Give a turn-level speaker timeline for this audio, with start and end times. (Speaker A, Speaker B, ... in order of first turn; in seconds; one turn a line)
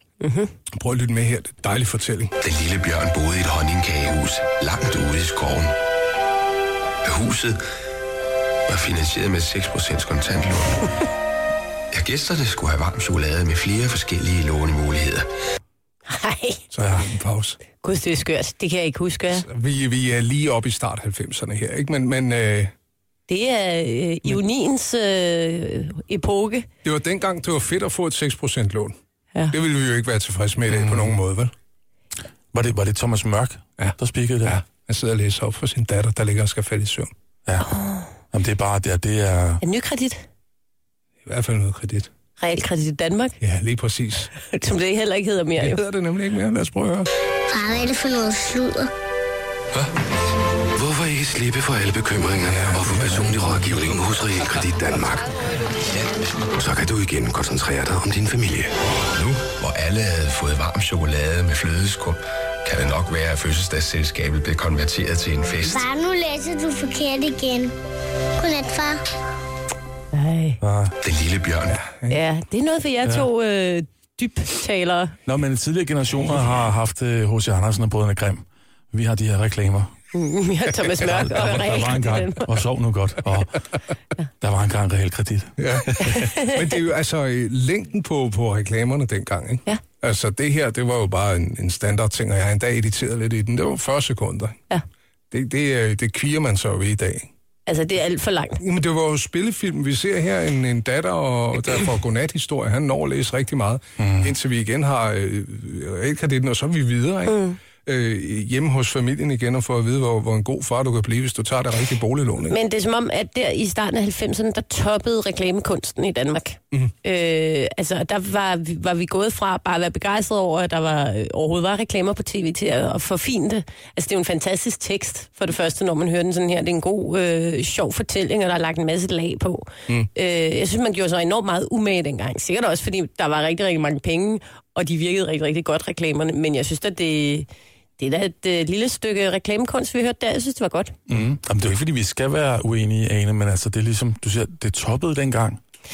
Speaker A: 0.2-0.5
Speaker B: 0.7-2.3
Speaker C: 2.4-5.8
Speaker C: 7.0-7.6
Speaker C: 8.7-10.9
Speaker C: 11.9-15.3
Speaker A: 16.1-16.6
Speaker B: 16.7-17.6
Speaker A: 17.8-19.5
Speaker B: 19.4-22.7
Speaker A: 23.3-26.7
Speaker B: 26.8-28.9
Speaker B: 29.5-31.5
Speaker D: 30.7-31.1
Speaker D: 32.5-34.6
Speaker B: 33.8-37.1
Speaker A: 37.6-38.1
Speaker D: 38.3-39.6
Speaker A: 39.6-40.2
Speaker B: 41.3-42.1
Speaker A: 42.4-43.4
Speaker B: 43.4-44.3
Speaker A: 44.4-45.8
Speaker B: 45.6-47.1
Speaker E: 47.5-48.9
Speaker C: 50.7-65.9
Speaker B: 52.5-53.4
Speaker E: 65.6-67.7
Speaker E: 68.4-69.0
Speaker A: 70.1-70.6
Speaker D: 70.6-71.0
Speaker C: 71.0-71.8
Speaker B: 71.7-72.2
Speaker A: 72.1-75.2
Speaker D: 75.3-79.9
Speaker A: 80.1-82.5
Speaker D: 81.0-83.6
Speaker B: 81.4-82.0
Speaker D: 84.4-86.3
Speaker B: 85.6-94.6
Speaker A: 86.0-86.6
Speaker B: 95.3-97.3
Speaker A: 97.7-98.6
Speaker B: 98.6-112.6
Speaker D: 104.0-104.3
Speaker A: 107.3-107.6
Speaker A: 112.5-137.5
Speaker A: 138.0-140.9
Speaker D: 141.1-145.6